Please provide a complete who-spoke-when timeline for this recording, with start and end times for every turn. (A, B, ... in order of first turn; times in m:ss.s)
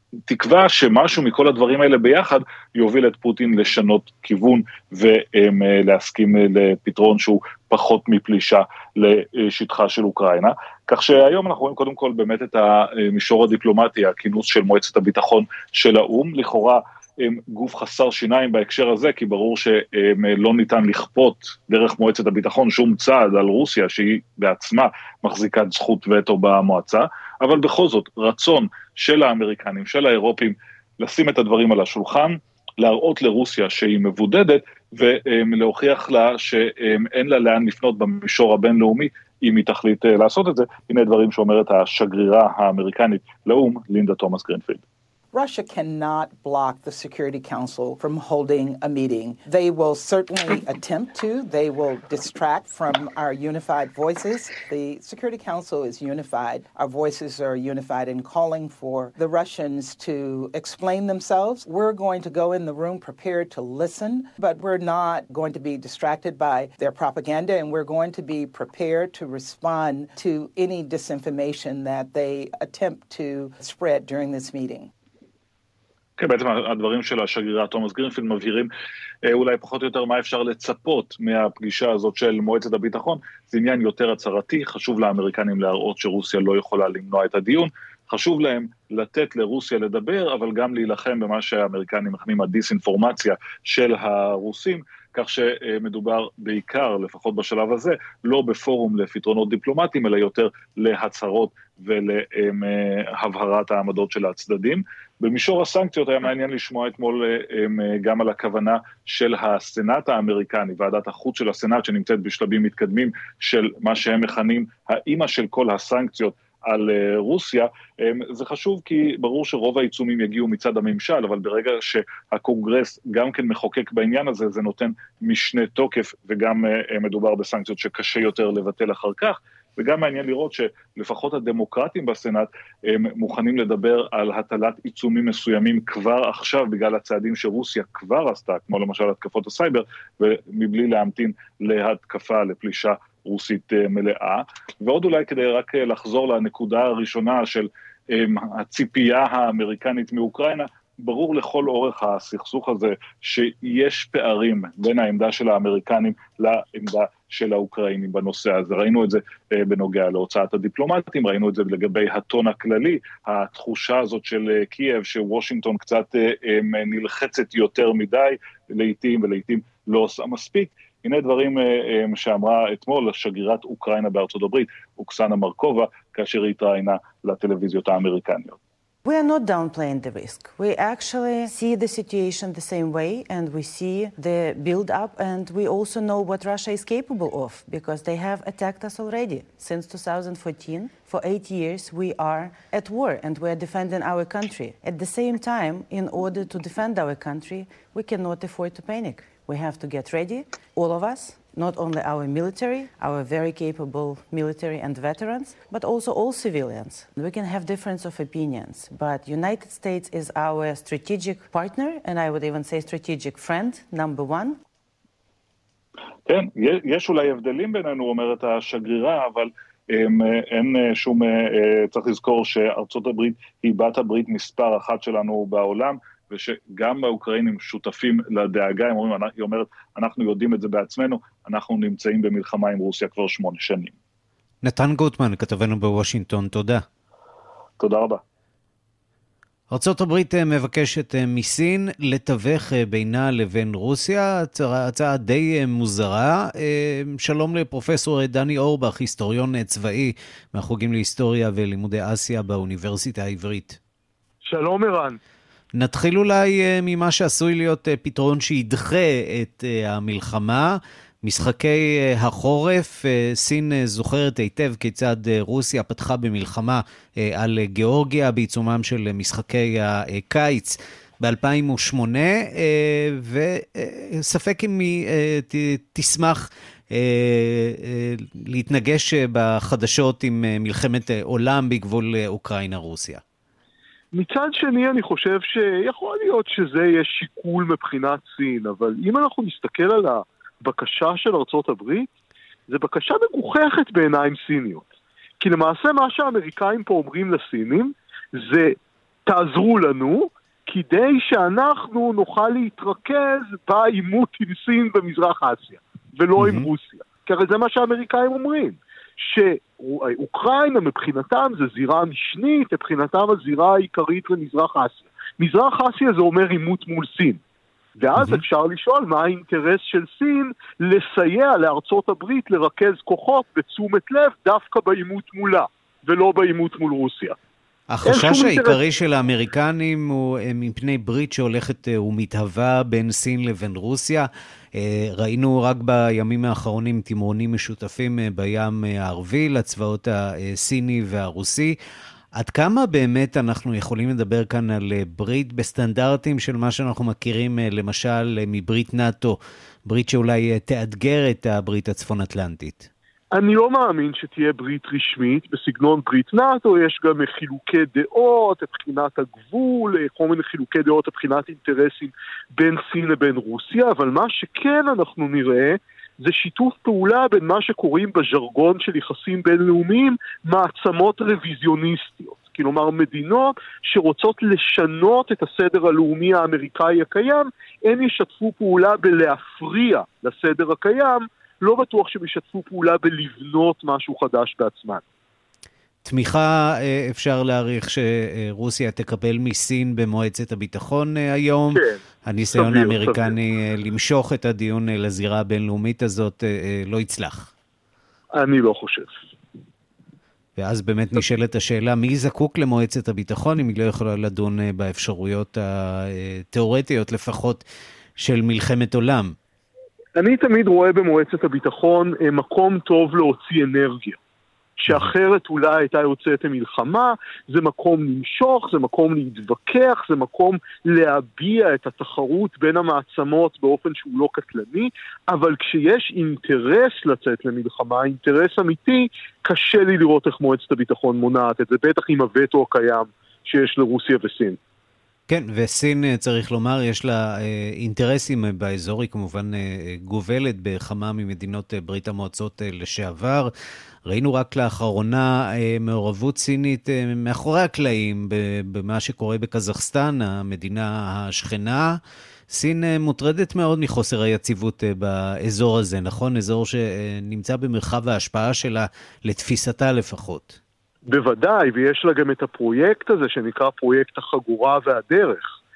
0:00.3-0:44.8 A
0:45.3-1:14.9 B
1:16.2-1:18.7 A
1:19.3-2:58.6 A
2:59.0-3:34.6 C
3:36.3-3:54.0 A
3:54.6-3:56.8 D
3:57.8-3:58.2 A
3:59.7-4:13.8 D
4:14.4-4:15.2 E
4:15.8-4:43.2 D
4:44.1-4:52.1 E
4:52.7-4:54.9 E
4:55.4-4:58.8 E
4:59.3-5:17.4 E
5:06.4-5:06.7 D
5:18.0-5:27.4 E
5:18.2-5:18.4 D
5:27.9-5:41.8 D
5:28.0-5:28.8 E
5:42.4-5:52.9 D
5:53.3-6:25.0 E
6:26.0-6:37.5 D
6:32.6-6:33.3 E
6:38.4-6:39.2 E
6:40.6-6:47.6 D
6:48.2-6:49.4 D
6:50.2-6:54.2 E
6:54.8-7:14.6 E
7:15.3-7:23.5 D
7:24.1-7:32.0 D
7:32.5-7:40.6 D
7:41.1-7:45.6 E